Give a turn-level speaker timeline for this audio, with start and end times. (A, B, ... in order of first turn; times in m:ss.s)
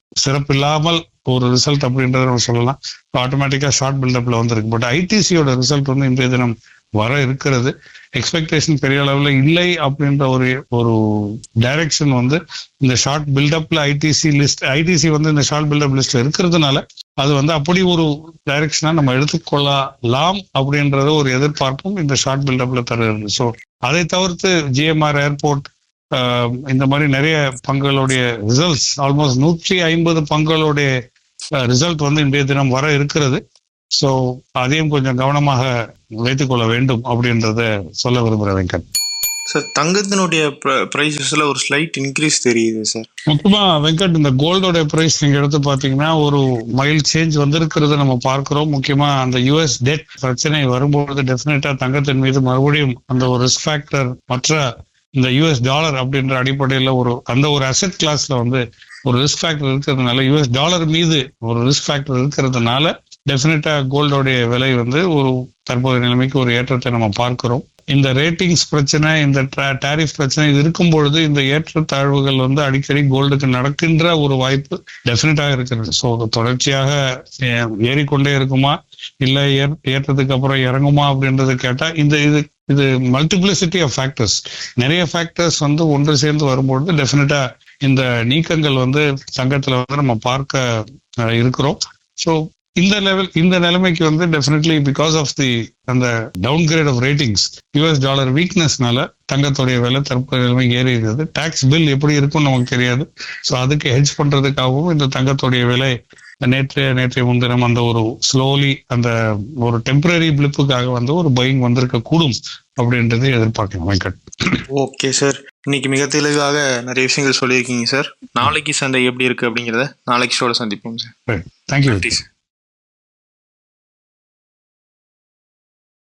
0:00.2-0:30.9 A
0:31.6-0:33.4 A
0:34.0-0:35.7 A
0:36.2-0:38.8 A
0:39.5-0:43.1 B
0:43.3-0:54.6 A
0:55.2-1:54.6 A
1:54.7-2:01.1 B
2:01.3-2:02.1 A
2:01.9-2:02.2 B